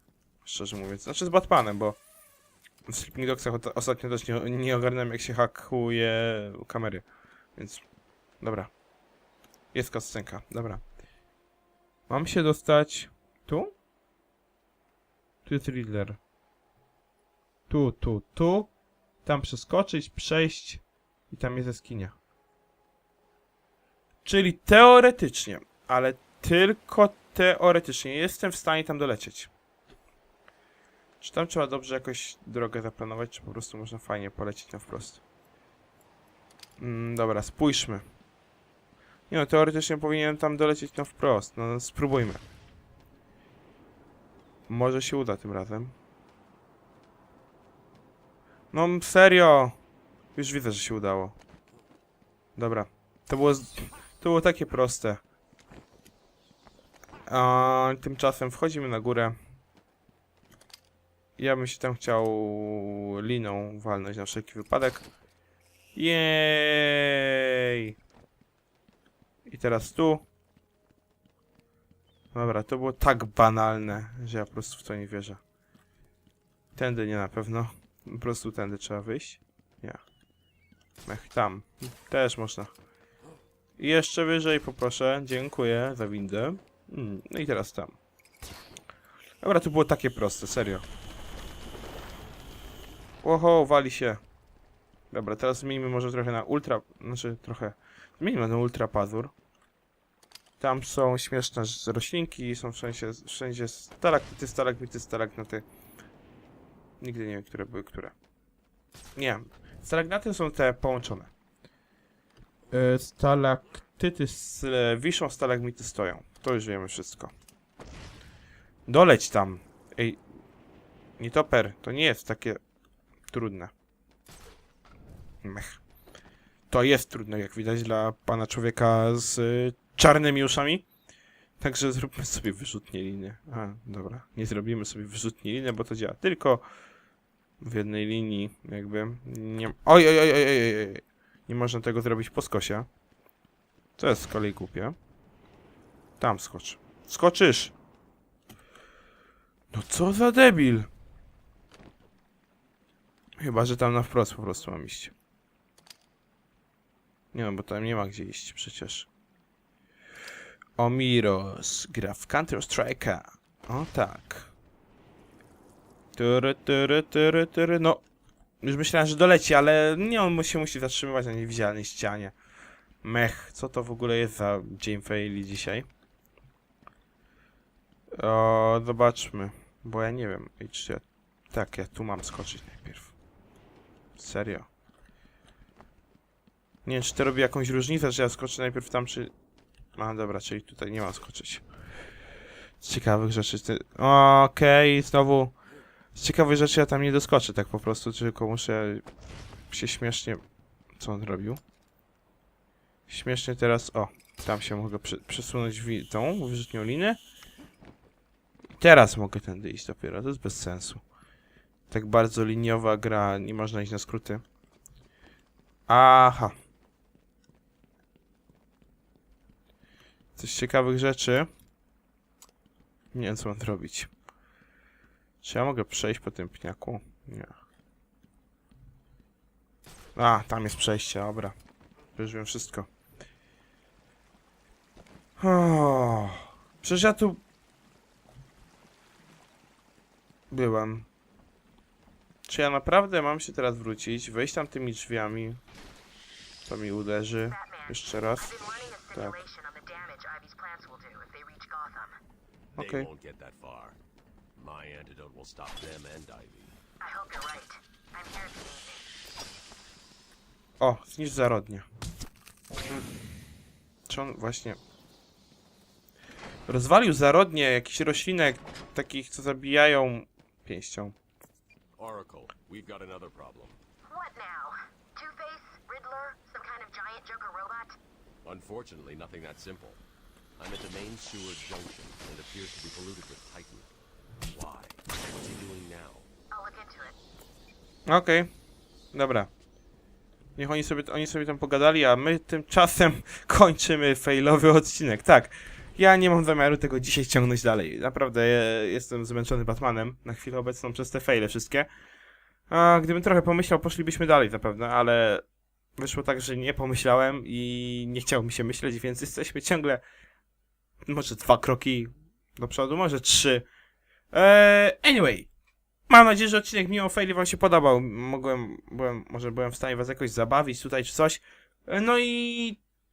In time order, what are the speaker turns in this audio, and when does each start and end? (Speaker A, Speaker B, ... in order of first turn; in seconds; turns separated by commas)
Speaker A: 0.4-2.0, Speaker A: 2.9-7.0, Speaker A: 7.5-7.8, Speaker A: 8.4-8.7, Speaker A: 9.7-10.8, Speaker A: 12.1-13.7, Speaker A: 15.4-16.2, Speaker A: 17.7-18.7, Speaker A: 19.2-22.1, Speaker A: 24.2-29.5, Speaker A: 31.2-35.2, Speaker A: 36.8-38.0, Speaker A: 39.3-42.4, Speaker A: 44.7-45.9, Speaker A: 48.7-49.8, Speaker A: 50.3-51.4, Speaker A: 52.5-55.2, Speaker A: 57.3-59.4, Speaker A: 61.4-65.0, Speaker A: 65.9-67.9, Speaker A: 69.4-70.2, Speaker A: 72.3-75.4, Speaker A: 76.8-80.0, Speaker A: 81.0-82.7, Speaker A: 83.8-88.0, Speaker A: 89.4-90.8, Speaker A: 93.2-94.2, Speaker A: 95.1-99.3, Speaker A: 100.6-105.6, Speaker A: 107.0-108.1, Speaker A: 109.2-111.3, Speaker A: 112.7-117.3, Speaker A: 118.9-120.2, Speaker A: 121.2-122.6, Speaker A: 123.3-123.7, Speaker A: 125.4-125.8, Speaker A: 126.7-130.9, Speaker A: 131.6-136.6, Speaker A: 137.6-142.9, Speaker A: 144.0-144.9, Speaker A: 146.2-147.7, Speaker A: 149.7-150.9, Speaker A: 153.4-155.1, Speaker A: 157.3-159.1, Speaker A: 160.8-164.5, Speaker A: 166.2-168.0, Speaker A: 168.6-172.3, Speaker A: 173.0-175.9, Speaker A: 178.1-183.1, Speaker A: 184.2-184.7, Speaker A: 186.8-189.3, Speaker A: 189.9-191.6, Speaker A: 192.8-195.6, Speaker A: 196.1-199.0, Speaker A: 199.7-200.4, Speaker A: 201.0-201.6, Speaker A: 203.1-207.2, Speaker A: 208.8-211.0, Speaker A: 211.9-214.4, Speaker A: 215.9-216.5, Speaker A: 220.3-221.5, Speaker A: 223.1-224.1, Speaker A: 225.4-227.5, Speaker A: 230.2-231.5, Speaker A: 232.2-232.9, Speaker A: 235.4-237.4, Speaker A: 240.5-241.1, Speaker A: 242.4-245.6, Speaker A: 246.7-248.5, Speaker B: 247.5-252.2, Speaker C: 252.8-254.0, Speaker A: 252.8-253.1, Speaker C: 254.5-256.7, Speaker B: 257.0-259.1, Speaker A: 260.8-261.9, Speaker A: 264.1-264.8, Speaker A: 266.7-271.1, Speaker C: 272.0-273.8, Speaker B: 274.1-278.0, Speaker C: 278.4-280.0, Speaker C: 280.6-283.9, Speaker C: 284.5-286.3, Speaker B: 286.5-287.1, Speaker A: 288.1-288.5, Speaker A: 289.1-289.5, Speaker A: 290.6-301.9, Speaker A: 302.7-305.4, Speaker A: 305.9-310.0, Speaker A: 311.0-313.6, Speaker A: 314.3-315.5, Speaker A: 316.1-322.8